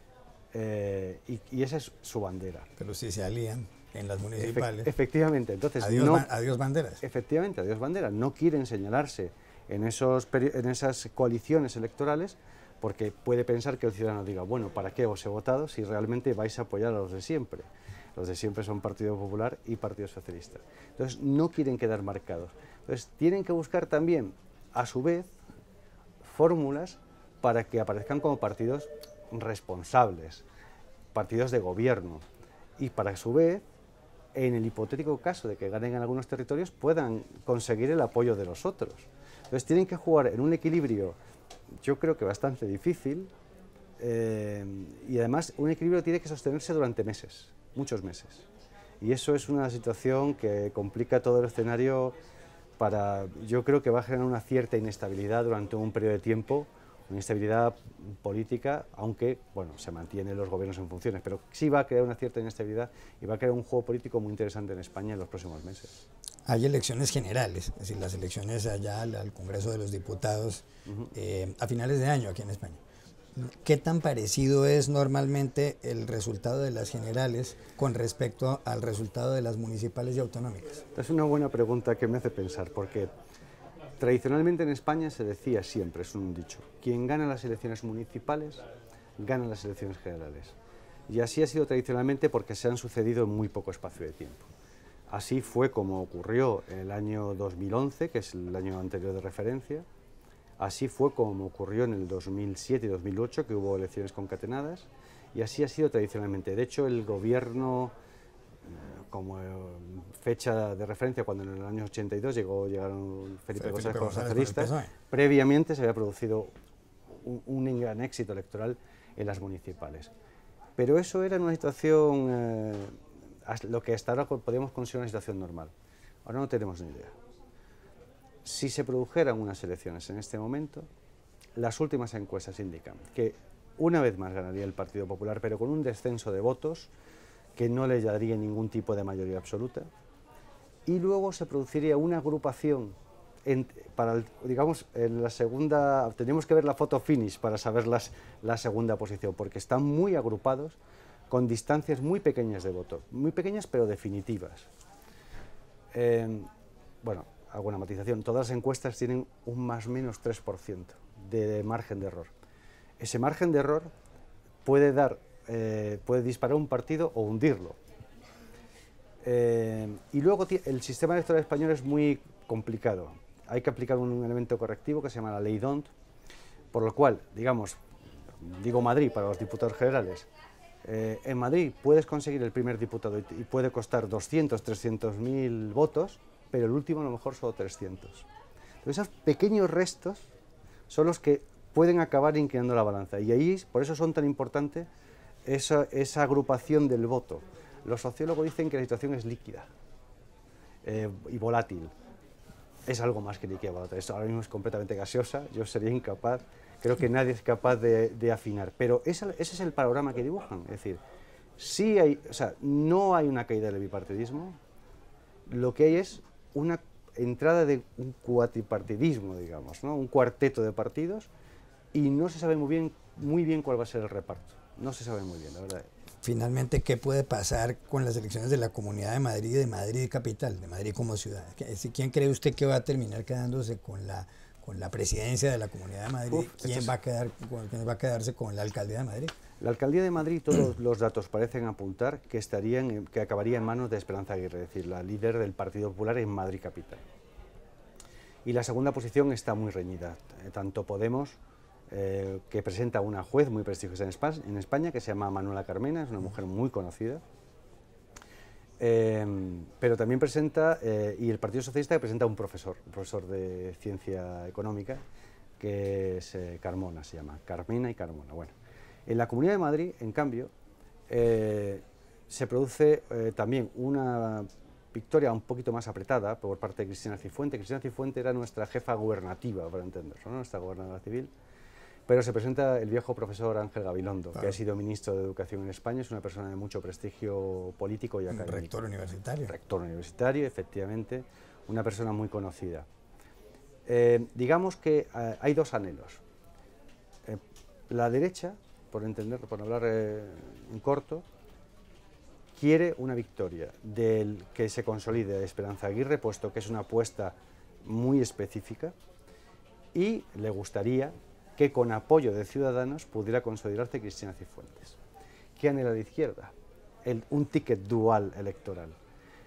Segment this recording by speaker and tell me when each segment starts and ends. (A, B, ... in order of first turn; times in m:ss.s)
0:00.5-0:02.7 A
0:02.8-0:04.9 B
0:04.4-0:06.3 A
0:05.8-0:07.0 B
0:07.0-0:25.3 A
0:26.2-0:30.4 A
0:31.1-0:32.2 A
0:32.8-0:33.6 A
0:34.3-0:41.2 A
0:41.8-0:43.3 A
0:44.0-0:48.5 A
0:49.0-0:52.2 A
0:52.8-1:05.9 A
1:06.4-1:12.8 B
1:10.9-1:11.1 A
1:13.4-1:20.8 B
1:20.9-1:23.1 A
1:24.0-1:28.6 A
1:29.2-1:30.6 A
1:31.1-1:34.5 A
1:35.1-1:39.8 A
1:40.6-1:47.9 A
1:48.6-1:56.5 A
1:53.6-1:54.9 B
1:57.1-2:00.1 A
2:00.8-2:05.7 A
2:06.2-2:07.2 A
2:08.4-2:10.9 A
2:11.6-2:16.9 A
2:17.6-2:19.9 A
2:20.9-2:30.8 A
2:31.3-2:34.7 A
2:35.9-2:36.5 A
2:37.0-2:42.3 A
2:43.0-2:43.9 A
2:44.6-2:47.8 A
2:49.2-2:55.9 A
2:56.7-2:57.8 A
2:58.4-3:00.3 A
3:00.8-3:08.3 A
3:08.8-3:10.3 A
3:10.9-3:14.9 A
3:15.4-3:19.7 A
3:20.8-3:21.9 A
3:22.8-3:31.0 A
3:31.6-3:34.6 A
3:35.5-3:41.3 A
3:41.9-3:45.9 A
3:46.2-3:59.3 B
3:56.3-3:56.9 A
3:59.6-4:07.0 A
4:08.4-4:11.4 A
4:11.9-4:17.2 A
4:18.8-4:25.0 A
4:25.6-4:28.6 A
4:29.1-4:30.5 A
4:31.1-4:41.3 A
4:42.1-4:48.7 A
4:48.3-4:49.5 B
4:49.4-4:52.9 A
4:53.8-4:56.2 A
4:57.2-5:01.2 A
5:02.6-5:08.9 A
5:09.9-5:15.0 A
5:15.6-5:16.5 A
5:17.0-5:19.0 A